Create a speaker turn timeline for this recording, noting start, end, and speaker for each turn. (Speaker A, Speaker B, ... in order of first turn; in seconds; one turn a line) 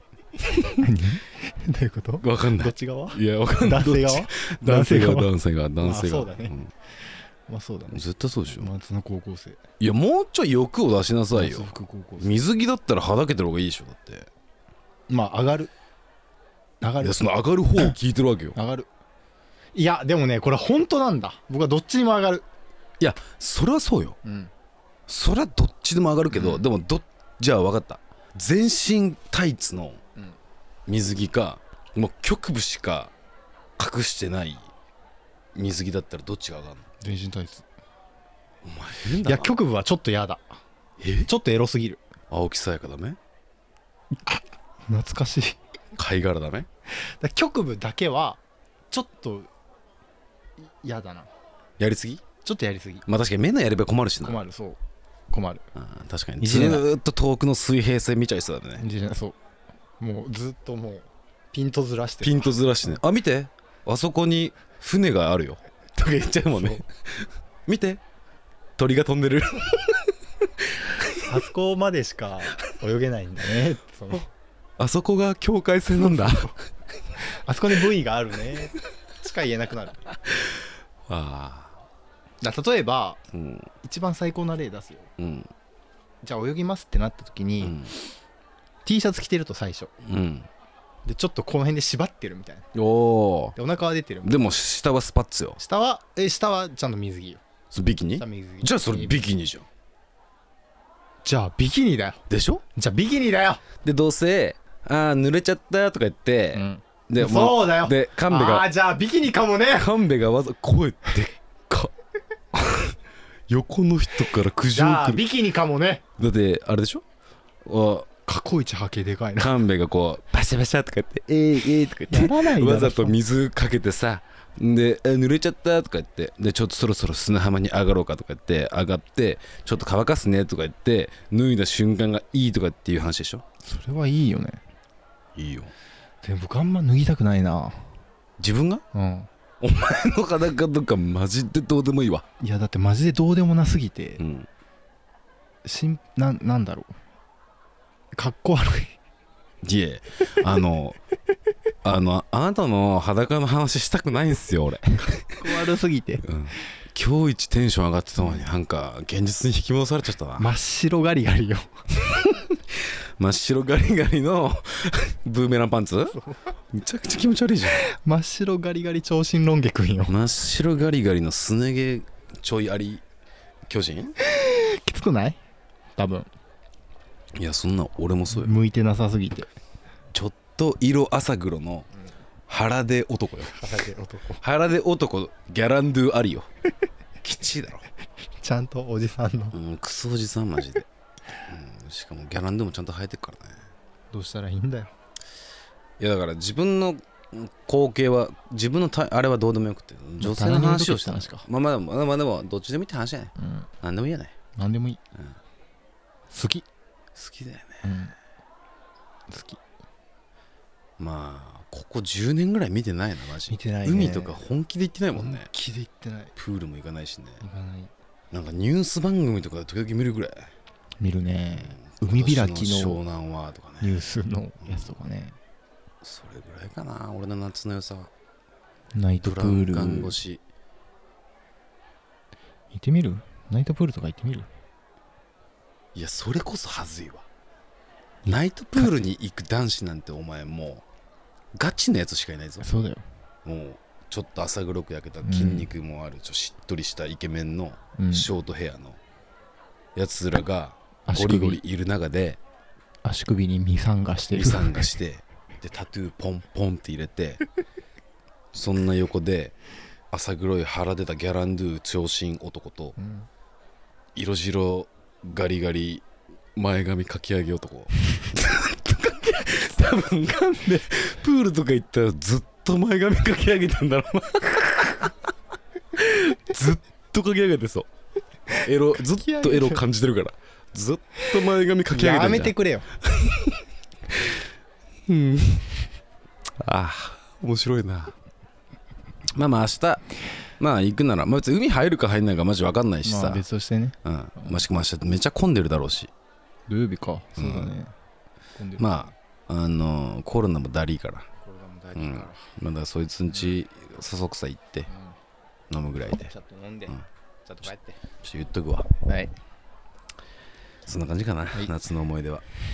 Speaker A: 0.5-0.8
Speaker B: 0.8-6.6
Speaker A: 2.2-6.7
Speaker B: 7.5-9.6
Speaker A: 7.9-8.7
Speaker A: 9.8-14.3
Speaker B: 11.3-12.4
Speaker B: 15.1-15.7
Speaker B: 16.8-17.2
Speaker A: 17.0-18.6
Speaker B: 18.5-18.9
Speaker B: 19.7-22.4
Speaker A: 23.0-24.2
Speaker B: 24.2-24.5
Speaker A: 25.1-30.0
Speaker B: 26.3-26.6
Speaker A: 30.9-33.1
Speaker A: 33.8-34.7
Speaker A: 35.5-36.8
Speaker B: 37.0-37.6
Speaker A: 38.6-39.5
Speaker B: 39.2-40.5
Speaker A: 41.0-41.3
Speaker B: 41.2-42.0
Speaker A: 42.3-43.2
Speaker B: 44.2-45.6
Speaker A: 45.9-46.7
Speaker B: 46.9-49.5
Speaker B: 50.6-51.3
Speaker A: 51.8-52.2
Speaker B: 52.4-53.0
Speaker A: 53.1-54.4
Speaker B: 54.2-54.8
Speaker B: 55.3-55.6
Speaker A: 55.7-58.8
Speaker B: 56.4-56.9
Speaker B: 58.8-59.4
Speaker B: 60.0-62.9
Speaker A: 62.2-68.0
Speaker B: 66.5-66.8
Speaker A: 68.8-71.3
Speaker B: 71.2-74.3
Speaker A: 74.8-76.5
Speaker B: 76.0-76.5
Speaker B: 77.3-80.1
Speaker A: 81.1-81.7
Speaker B: 82.4-83.2
Speaker A: 83.3-83.7
Speaker B: 83.8-85.1
Speaker A: 85.2-85.5
Speaker B: 86.2-87.9
Speaker A: 87.6-87.9
Speaker B: 88.8-89.9
Speaker A: 90.0-90.5
Speaker B: 91.0-92.7
Speaker A: 92.7-93.5
Speaker B: 93.5-94.4
Speaker A: 94.2-95.6
Speaker B: 95.6-97.4
Speaker A: 97.7-99.7
Speaker B: 98.2-99.2
Speaker B: 101.2-102.2
Speaker A: 102.3-102.6
Speaker B: 102.7-103.6
Speaker A: 103.8-108.7
Speaker B: 106.5-109.9
Speaker A: 109.7-111.9
Speaker A: 112.5-112.9
Speaker A: 113.5-115.2
Speaker B: 114.7-116.0
Speaker A: 116.2-117.0
Speaker A: 117.6-118.1
Speaker B: 118.2-119.5
Speaker A: 119.4-133.4
Speaker B: 122.1-123.2
Speaker B: 133.6-134.6
Speaker A: 135.3-135.7
Speaker B: 136.2-137.8
Speaker A: 138.4-138.8
Speaker B: 138.9-139.3
Speaker A: 139.6-142.2
Speaker B: 142.4-144.2
Speaker A: 144.2-144.5
Speaker B: 145.6-146.9
Speaker B: 148.1-149.0
Speaker A: 149.6-151.0
Speaker A: 151.8-155.5
Speaker B: 155.4-156.2
Speaker A: 156.2-160.5
Speaker B: 160.4-161.7
Speaker A: 162.1-166.2
Speaker B: 166.1-166.4
Speaker A: 166.7-167.8
Speaker B: 167.7-170.2
Speaker A: 170.1-173.0
Speaker A: 173.7-174.2
Speaker B: 174.2-175.4
Speaker B: 176.0-176.3
Speaker A: 177.3-178.5
Speaker B: 178.3-179.5
Speaker A: 180.1-181.9
Speaker A: 182.5-183.8
Speaker B: 183.5-184.4
Speaker A: 184.4-186.5
Speaker A: 187.2-187.8
Speaker B: 188.4-189.6
Speaker A: 189.5-190.9
Speaker A: 191.4-193.6
Speaker B: 194.1-194.9
Speaker A: 196.0-204.3
Speaker B: 200.2-201.4
Speaker B: 203.4-203.7
Speaker B: 204.6-205.0
Speaker B: 206.3-206.7
Speaker A: 207.1-207.8
Speaker B: 207.8-208.2
Speaker B: 209.3-209.6
Speaker A: 211.0-215.5
Speaker B: 213.5-214.4
Speaker B: 215.1-216.3
Speaker A: 216.3-217.4
Speaker B: 217.4-217.9
Speaker A: 218.3-220.5
Speaker B: 221.0-223.0
Speaker A: 221.5-224.0
Speaker B: 223.8-225.4
Speaker A: 224.6-224.9
Speaker A: 226.0-228.1
Speaker B: 228.9-230.2
Speaker A: 229.2-230.4
Speaker B: 232.7-234.5
Speaker A: 235.9-237.2
Speaker B: 238.3-238.9
Speaker A: 238.3-240.8
Speaker A: 241.5-242.7
Speaker B: 242.6-243.0
Speaker A: 243.4-249.0
Speaker B: 245.2-245.7
Speaker B: 248.0-248.3
Speaker A: 249.9-252.4
Speaker B: 251.1-251.6
Speaker B: 253.0-254.9
Speaker A: 254.3-257.4
Speaker A: 258.5-259.5
Speaker A: 260.1-262.9
Speaker B: 263.0-263.3
Speaker A: 264.1-275.3
Speaker A: 275.9-277.9
Speaker B: 278.5-279.8
Speaker A: 278.5-284.4
Speaker B: 281.9-282.9
Speaker A: 285.1-285.9
Speaker A: 286.6-288.1
Speaker A: 289.3-290.0
Speaker A: 290.6-293.4
Speaker B: 293.0-294.6
Speaker A: 294.0-296.1
Speaker B: 296.7-297.9
Speaker A: 297.4-297.7
Speaker B: 298.5-299.1
Speaker A: 298.8-301.2
Speaker B: 301.4-302.5
Speaker A: 301.9-304.9
Speaker B: 303.3-303.6
Speaker B: 304.9-305.1
Speaker A: 305.7-306.3
Speaker B: 306.1-308.0
Speaker A: 308.2-308.9
Speaker B: 309.0-309.3
Speaker A: 310.9-312.4